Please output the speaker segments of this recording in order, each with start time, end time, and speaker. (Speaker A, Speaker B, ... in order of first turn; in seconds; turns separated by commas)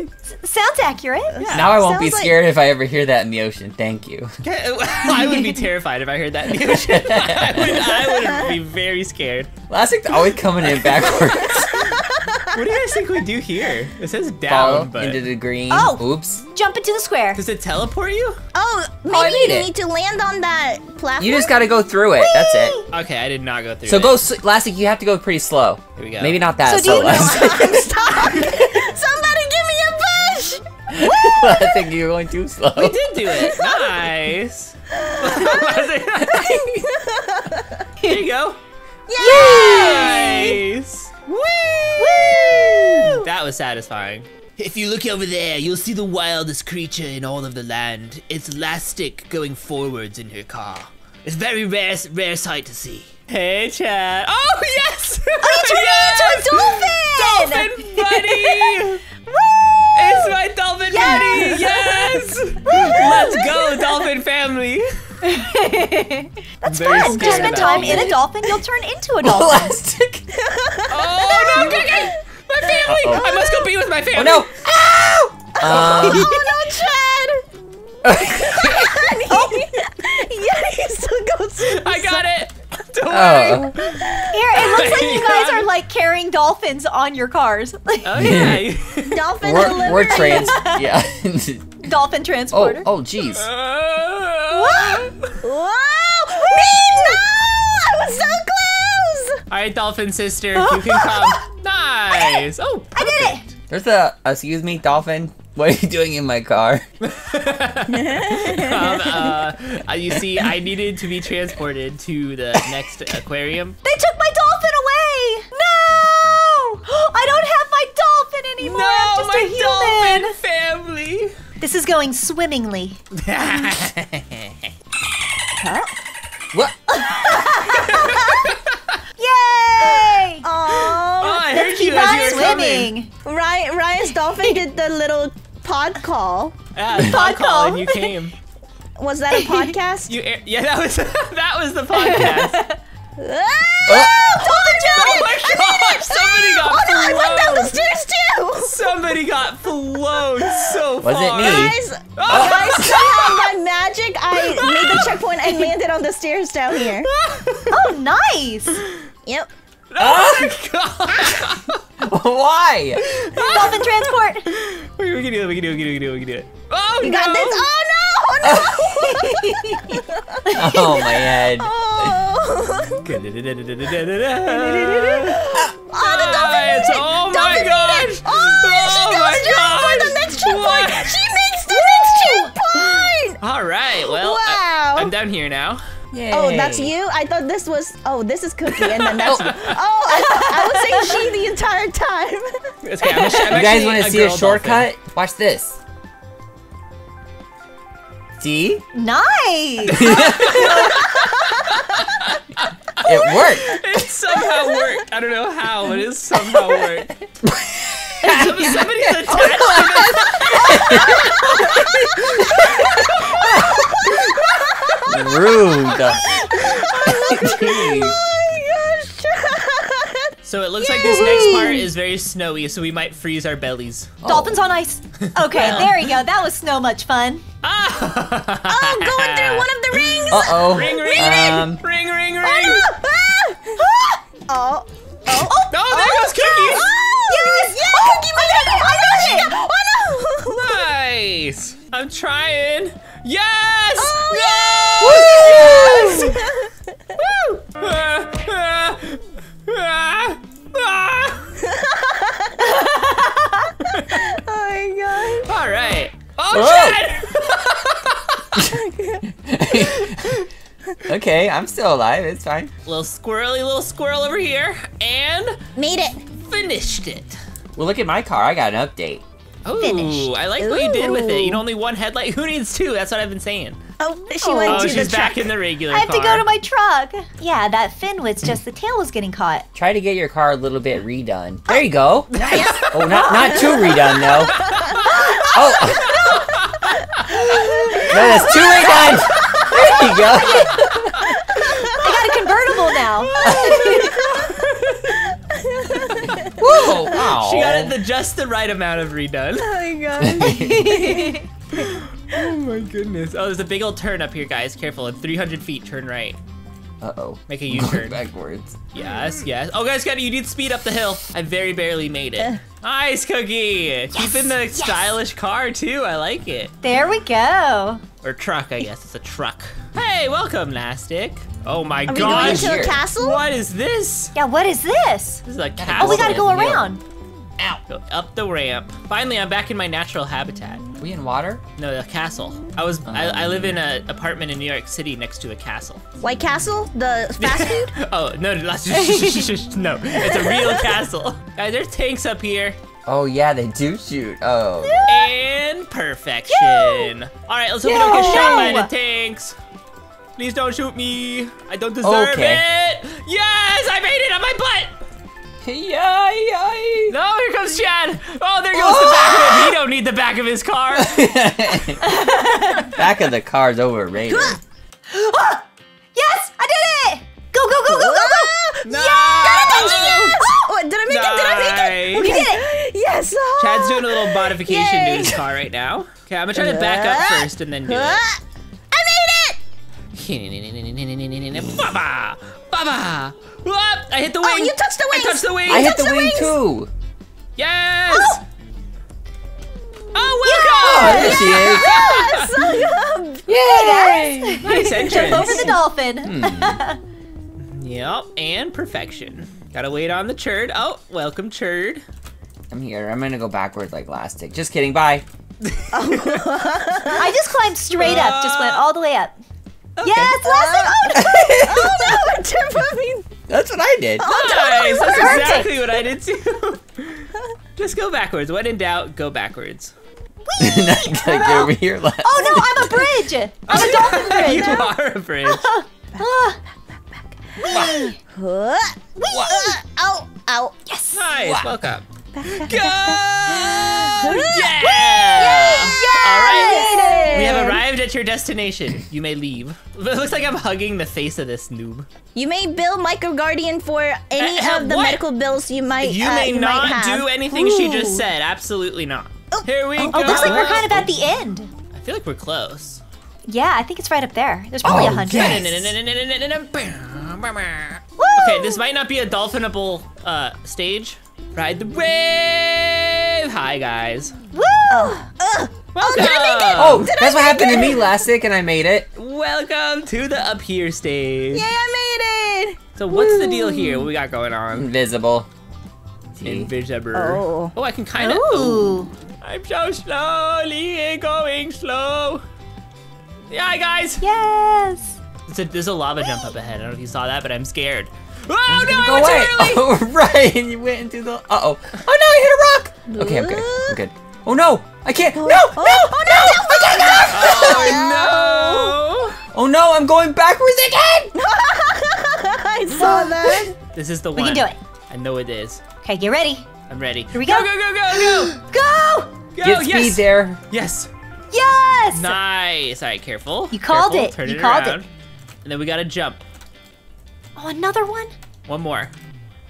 Speaker A: 0.4-1.4, Speaker B: 1.4-1.8, Speaker C: 1.4-2.4, Speaker D: 1.5-4.3, Speaker B: 4.4-9.5, Speaker D: 6.7-7.9, Speaker C: 8.2-8.5, Speaker D: 9.7-12.0, Speaker C: 11.1-12.6, Speaker B: 12.5-15.2, Speaker D: 14.5-16.4, Speaker A: 15.7-17.4, Speaker B: 17.3-18.4, Speaker C: 18.5-21.6, Speaker D: 19.1-19.7, Speaker D: 21.2-22.8, Speaker A: 22.3-22.8, Speaker B: 22.9-24.2, Speaker D: 23.9-28.2, Speaker B: 25.9-26.5, Speaker A: 26.6-27.8, Speaker C: 26.8-31.7, Speaker D: 30.9-33.0, Speaker B: 32.8-36.9, Speaker C: 33.4-33.8, Speaker C: 35.0-37.8, Speaker B: 38.0-38.6, Speaker C: 39.1-40.6, Speaker A: 39.2-40.1, Speaker B: 39.2-59.0, Speaker C: 41.9-43.1, Speaker A: 42.0-43.1, Speaker A: 55.5-59.9, Speaker C: 56.1-56.6, Speaker C: 57.2-57.6, Speaker B: 59.9-64.9, Speaker A: 61.0-62.1, Speaker C: 61.0-61.5, Speaker C: 62.9-63.6, Speaker A: 65.2-69.7, Speaker B: 66.6-68.2, Speaker C: 67.1-68.1, Speaker D: 67.6-67.9, Speaker D: 69.2-70.2, Speaker C: 70.3-72.1, Speaker B: 70.9-74.5, Speaker C: 72.7-73.7, Speaker D: 72.8-73.4, Speaker D: 74.1-76.3, Speaker C: 75.6-77.4, Speaker B: 75.6-76.3, Speaker D: 78.0-79.1, Speaker C: 78.1-82.2, Speaker B: 81.6-85.7, Speaker D: 83.1-83.8, Speaker A: 84.3-88.4, Speaker B: 88.0-89.6, Speaker D: 88.2-88.7, Speaker C: 89.1-90.7, Speaker D: 89.4-91.9, Speaker A: 89.6-90.9, Speaker A: 91.8-92.8, Speaker D: 92.5-93.5, Speaker B: 93.3-95.4, Speaker A: 94.5-95.1, Speaker C: 95.4-99.4, Speaker B: 99.5-103.5, Speaker A: 100.5-101.4, Speaker A: 102.9-103.4, Speaker D: 103.7-106.8, Speaker B: 107.0-113.8, Speaker C: 107.9-109.3, Speaker A: 113.8-120.4, Speaker B: 118.6-121.4, Speaker A: 121.6-123.0, Speaker B: 123.1-124.7, Speaker C: 125.6-125.9, Speaker A: 126.9-128.5, Speaker B: 127.3-129.0, Speaker A: 129.2-130.5, Speaker C: 130.4-131.6, Speaker B: 131.2-132.9, Speaker A: 131.5-133.1, Speaker C: 133.2-136.6, Speaker A: 134.4-134.6, Speaker B: 136.7-138.3, Speaker A: 136.9-138.1, Speaker C: 139.0-140.1, Speaker A: 139.3-139.7, Speaker B: 140.1-142.6, Speaker A: 141.9-142.8, Speaker C: 143.2-149.0, Speaker D: 143.9-144.1, Speaker A: 144.3-145.4, Speaker B: 144.9-147.8, Speaker B: 148.6-153.5, Speaker D: 151.0-153.0, Speaker C: 151.4-157.1, Speaker B: 154.4-155.2, Speaker A: 155.4-155.7, Speaker B: 156.8-157.9, Speaker A: 157.7-158.8, Speaker B: 159.9-161.8, Speaker D: 160.0-160.6, Speaker D: 161.3-163.1, Speaker B: 163.0-167.7, Speaker A: 163.3-164.5, Speaker C: 167.0-173.1, Speaker D: 168.4-168.9, Speaker A: 169.2-169.9, Speaker D: 170.5-172.2, Speaker B: 173.0-181.3, Speaker C: 174.4-183.4, Speaker B: 183.4-185.8, Speaker C: 184.0-185.1, Speaker D: 186.1-186.9, Speaker C: 186.3-192.7, Speaker B: 189.0-189.8, Speaker D: 189.2-189.5, Speaker A: 190.1-191.3, Speaker B: 192.8-194.9, Speaker A: 193.1-193.5, Speaker D: 193.5-195.8, Speaker D: 198.4-198.8, Speaker A: 198.9-201.1, Speaker B: 199.8-207.1, Speaker D: 199.9-200.9, Speaker D: 203.0-203.8, Speaker C: 204.5-204.8, Speaker D: 207.4-213.8, Speaker B: 208.2-214.9, Speaker C: 210.6-221.8, Speaker D: 215.1-216.4, Speaker B: 216.0-216.7, Speaker D: 216.9-218.2, Speaker B: 220.4-224.2, Speaker D: 224.2-224.6, Speaker A: 224.2-227.4, Speaker B: 225.2-226.1, Speaker B: 227.6-232.9, Speaker C: 228.7-231.4, Speaker D: 230.3-231.8, Speaker C: 232.4-240.8, Speaker B: 235.3-236.9, Speaker A: 235.3-236.2, Speaker A: 237.3-239.6, Speaker B: 240.5-246.4, Speaker C: 244.0-247.3, Speaker D: 245.0-246.4, Speaker B: 247.2-251.5, Speaker C: 251.6-253.2, Speaker B: 253.8-254.3, Speaker C: 253.9-255.5, Speaker B: 255.4-258.7, Speaker D: 256.5-257.0, Speaker C: 258.6-259.2, Speaker D: 259.3-260.4, Speaker B: 260.0-260.5, Speaker D: 261.0-262.7, Speaker B: 262.8-265.6, Speaker C: 265.7-266.2, Speaker B: 266.4-267.4, Speaker D: 267.7-269.2, Speaker B: 269.6-273.8, Speaker A: 269.8-270.3, Speaker C: 270.6-271.6, Speaker C: 274.0-275.5, Speaker A: 274.4-275.2, Speaker B: 274.6-276.5, Speaker A: 275.9-279.6, Speaker D: 279.7-284.8, Speaker C: 282.3-286.4, Speaker B: 282.5-282.9, Speaker A: 283.3-283.9, Speaker B: 284.5-285.3, Speaker D: 285.4-286.3, Speaker B: 286.1-288.1, Speaker C: 287.4-292.1, Speaker A: 287.7-290.7, Speaker D: 288.1-291.0, Speaker B: 290.8-292.0, Speaker A: 291.9-294.2, Speaker B: 293.1-295.3, Speaker D: 293.4-293.9, Speaker C: 294.1-294.4, Speaker C: 295.5-297.1, Speaker B: 295.9-299.8, Speaker D: 296.4-297.9, Speaker C: 299.6-302.0, Speaker D: 300.2-301.1, Speaker A: 300.4-301.4, Speaker B: 301.7-306.4, Speaker D: 307.0-308.8, Speaker B: 307.5-308.2, Speaker B: 308.9-316.7, Speaker C: 314.2-315.1, Speaker A: 316.8-318.0, Speaker B: 318.2-324.3, Speaker C: 322.1-323.4, Speaker D: 322.1-323.0, Speaker A: 324.3-325.4, Speaker B: 325.4-326.7, Speaker D: 325.8-327.0, Speaker A: 325.9-327.0, Speaker B: 327.9-330.8, Speaker D: 331.0-331.6, Speaker B: 331.8-336.0, Speaker D: 333.0-333.8, Speaker C: 336.2-337.9, Speaker B: 337.4-342.8, Speaker A: 339.0-339.5, Speaker D: 343.1-345.1, Speaker B: 345.1-349.6, Speaker A: 346.5-347.1, Speaker A: 347.9-348.9, Speaker C: 347.9-348.7, Speaker D: 347.9-348.6, Speaker B: 350.4-354.9, Speaker D: 352.0-352.6, Speaker D: 355.6-357.1, Speaker B: 357.1-361.2, Speaker C: 358.7-359.8, Speaker D: 360.9-362.0, Speaker A: 362.0-362.9, Speaker D: 362.9-364.6, Speaker C: 364.3-364.6, Speaker A: 365.1-369.6, Speaker C: 367.8-375.4, Speaker B: 368.8-372.3, Speaker A: 372.1-372.7, Speaker B: 373.6-378.2, Speaker C: 376.5-379.6, Speaker B: 380.1-386.0, Speaker C: 384.4-386.6, Speaker D: 385.7-386.9, Speaker B: 387.6-388.4, Speaker A: 388.1-388.4, Speaker B: 390.1-392.8, Speaker A: 390.4-391.5, Speaker D: 390.8-391.9, Speaker C: 390.9-394.3, Speaker D: 393.5-396.8, Speaker A: 393.5-397.0, Speaker B: 394.6-395.7, Speaker B: 397.6-402.0, Speaker D: 402.7-405.2, Speaker B: 405.6-406.6, Speaker C: 405.9-407.3, Speaker A: 407.1-409.3, Speaker B: 408.0-408.8, Speaker B: 410.0-410.4, Speaker A: 410.0-411.6, Speaker C: 410.4-413.3, Speaker D: 411.1-412.2, Speaker D: 413.5-414.3, Speaker A: 414.2-415.9, Speaker B: 414.2-419.9, Speaker C: 414.3-415.6, Speaker A: 420.4-424.9, Speaker D: 420.6-423.2, Speaker B: 423.7-425.7, Speaker A: 425.4-426.6, Speaker A: 427.6-428.1, Speaker C: 427.6-431.3, Speaker D: 427.7-428.1, Speaker D: 429.3-429.7, Speaker B: 431.1-442.1, Speaker D: 431.4-431.7, Speaker A: 432.3-433.2, Speaker C: 433.6-437.8, Speaker A: 436.4-437.8, Speaker C: 442.3-447.3, Speaker B: 444.4-445.2, Speaker B: 446.0-451.1, Speaker A: 447.5-448.2, Speaker C: 449.5-450.7, Speaker A: 450.1-451.7, Speaker B: 451.9-453.0, Speaker A: 453.4-455.7, Speaker D: 454.8-455.9, Speaker B: 455.3-464.3, Speaker A: 458.2-458.8, Speaker A: 464.5-465.3, Speaker C: 464.9-468.1, Speaker B: 465.9-467.1, Speaker D: 466.1-469.1, Speaker B: 469.1-471.7, Speaker C: 471.5-474.1, Speaker B: 472.9-474.9, Speaker D: 474.7-475.5, Speaker D: 476.4-476.7, Speaker B: 476.4-482.4, Speaker C: 477.1-477.7, Speaker A: 478.1-479.1, Speaker B: 483.5-484.2, Speaker A: 484.2-485.2, Speaker B: 485.5-489.9, Speaker D: 488.7-498.1, Speaker C: 493.1-494.0, Speaker C: 495.3-499.0, Speaker B: 497.2-499.4, Speaker D: 499.5-501.3, Speaker C: 501.3-503.7, Speaker A: 502.9-503.7, Speaker B: 503.9-505.8, Speaker A: 504.3-504.8, Speaker A: 506.0-506.7, Speaker B: 506.9-508.6, Speaker A: 507.3-509.3, Speaker B: 509.5-511.1, Speaker D: 509.6-510.6, Speaker A: 511.5-512.4, Speaker B: 512.1-515.1, Speaker A: 513.7-515.0, Speaker B: 515.6-516.4, Speaker A: 517.6-518.3, Speaker B: 518.7-519.1